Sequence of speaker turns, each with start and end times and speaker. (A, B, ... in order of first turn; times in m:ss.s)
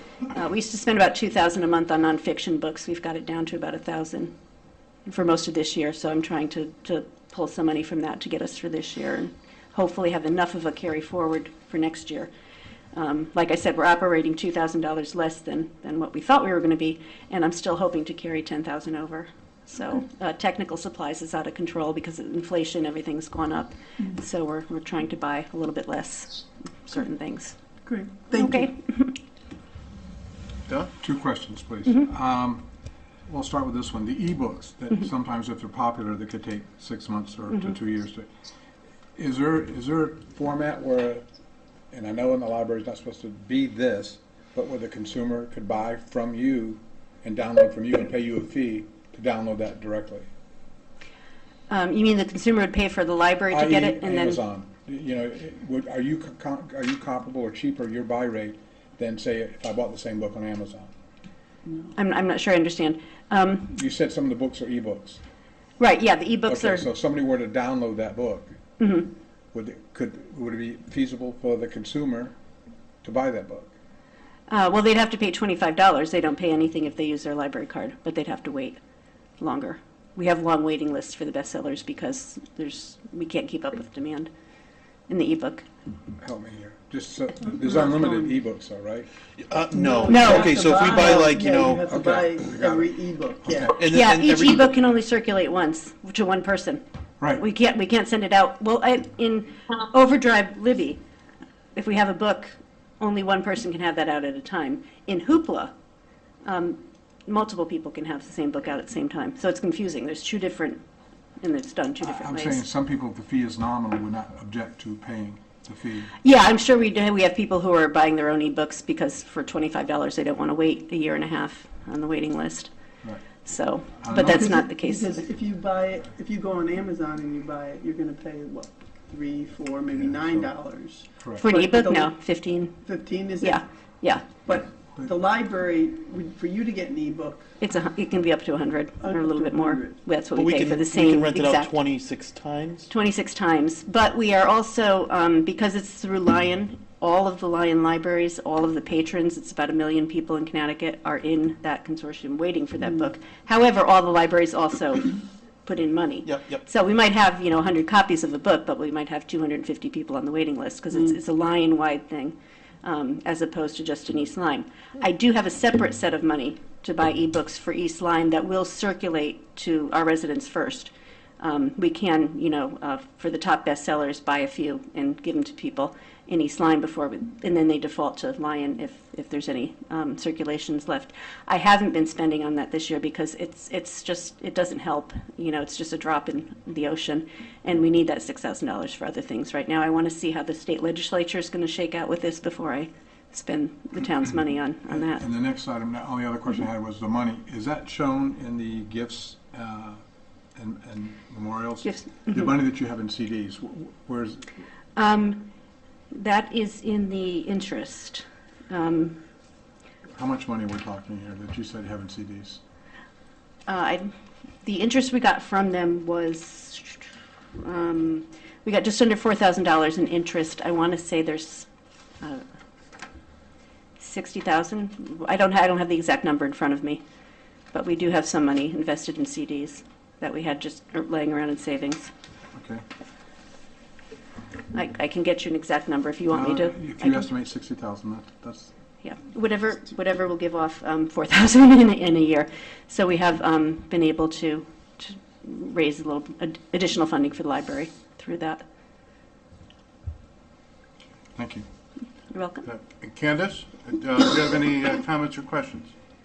0:00.3-0:04.3 A
0:05.1-0:12.3 A
0:12.9-0:27.6 A
0:27.8-0:28.7 B
0:28.3-0:29.2 A
0:31.0-0:32.7 C
0:33.3-0:38.3 C
0:39.2-0:41.2 C
0:41.9-0:50.3 C
0:51.7-0:54.4 A
0:53.5-1:00.9 C
1:02.0-1:03.7 A
1:03.7-1:05.2 C
1:05.8-1:06.8 A
1:06.5-1:08.6 C
1:08.8-1:09.1 A
1:09.5-1:12.4 C
1:13.0-1:13.7 C
1:14.5-1:18.8 A
1:19.4-1:24.3 A
1:25.1-1:25.7 A
1:26.2-1:29.1 C
1:27.6-1:28.3 B
1:29.4-1:32.4 D
1:29.7-1:33.8 B
1:30.1-1:31.2 A
1:31.9-1:32.9 C
1:33.7-1:34.7 D
1:33.9-1:36.8 A
1:37.4-1:41.0 A
1:41.8-1:45.7 A
1:46.4-1:50.8 A
1:51.4-1:52.6 A
1:52.0-1:56.2 C
1:56.2-2:02.7 A
2:03.0-2:03.3 C
2:03.4-2:05.3 A
2:04.0-2:04.6 C
2:04.3-2:12.2 B
2:11.4-2:12.8 A
2:12.8-2:13.6 B
2:13.4-2:14.2 A
2:14.4-2:17.5 B
2:17.6-2:21.8 A
2:19.0-2:20.1 B
2:20.3-2:22.9 D
2:22.9-3:15.2 A
2:36.3-2:36.6 D
2:40.9-2:41.2 B
3:14.9-3:20.0 C
3:20.6-3:24.5 C
3:21.8-3:22.5 A
3:25.0-3:25.4 A
3:26.1-3:29.2 A
3:30.2-3:32.6 C
3:33.7-3:34.1 A
3:34.6-3:41.7 A
3:44.0-3:47.0 A
3:47.7-3:52.1 A
3:52.6-3:52.8 C
3:54.7-3:57.3 A
3:56.3-3:58.7 C
3:59.0-4:08.6 A
4:11.4-4:11.6 C
4:12.3-4:12.7 A
4:12.6-4:15.9 E